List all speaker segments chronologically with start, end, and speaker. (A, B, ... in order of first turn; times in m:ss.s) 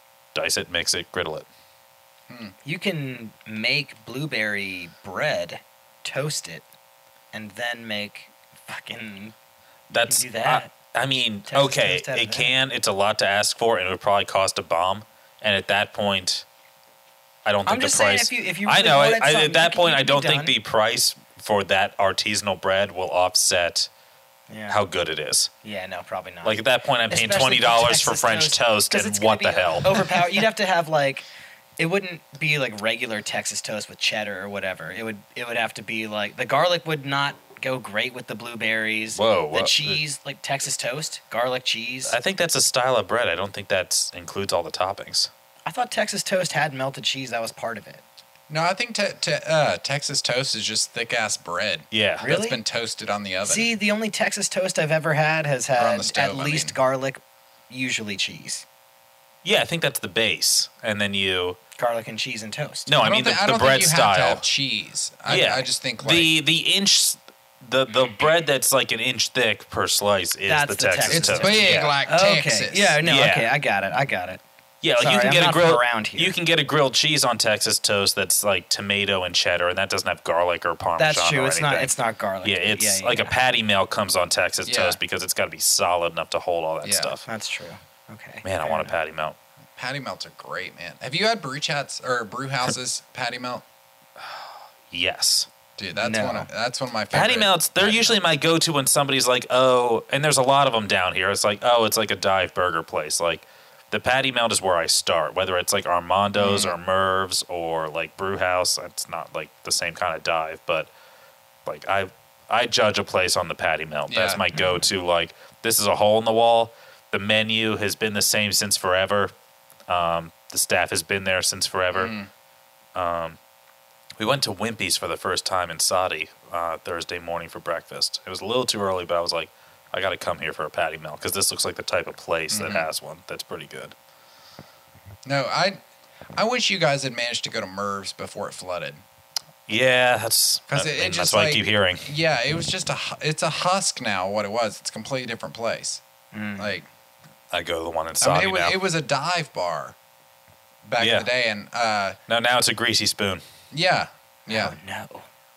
0:00.4-0:01.5 A
0:02.3-0:02.5 B
0:02.6-0:06.6 C
0:07.3-0:09.3 C
0:09.9-0:16.4 A
0:10.0-0:10.7 C
0:11.5-0:12.5 C
0:17.4-0:23.9 A
0:17.7-0:20.5 C
0:24.5-0:24.8 C
0:24.7-0:25.5 A
0:25.6-0:31.2 C
0:26.4-0:30.3 A
0:31.8-0:42.2 C
0:39.2-0:40.0 A
0:42.1-0:45.3 A
0:45.7-0:48.0 C
0:48.5-0:53.7 B
0:51.9-0:52.3 A
0:52.2-0:52.6 C
0:53.4-0:58.6 C
0:55.8-0:56.8 B
0:59.4-1:01.6 A
1:01.8-1:02.9 C
1:02.9-1:04.4 A
1:03.0-1:06.3 B
1:05.3-1:11.9 A
1:10.5-1:14.4 C
1:11.1-1:13.0 B
1:13.0-1:13.5 A
1:14.8-1:21.9 A
1:15.0-1:16.4 C
1:21.0-1:23.4 C
1:22.4-1:27.3 A
1:24.6-1:25.0 B
1:26.8-1:27.2 B
1:27.3-1:28.9 C
1:28.4-1:29.4 A
1:29.8-1:33.6 B
1:34.2-1:35.5 A
1:35.8-1:38.2 B
1:35.9-1:36.5 C
1:37.1-1:50.9 A
1:46.4-1:46.8 B
1:51.7-1:59.3 A
1:54.1-1:54.5 B
1:59.9-2:02.1 A
2:01.9-2:02.3 B
2:03.0-2:03.4 A
2:04.2-2:13.9 A
2:12.5-2:12.9 B
2:15.2-2:15.8 B
2:16.4-2:19.0 B
2:19.7-2:22.1 A
2:20.7-2:26.0 B
2:26.3-2:26.7 C
2:26.6-2:26.9 B
2:27.5-2:28.8 A
2:28.2-2:30.0 B
2:30.8-2:32.2 B
2:31.0-2:31.3 A
2:32.3-2:33.4 A
2:33.7-2:34.8 B
2:34.5-2:35.3 C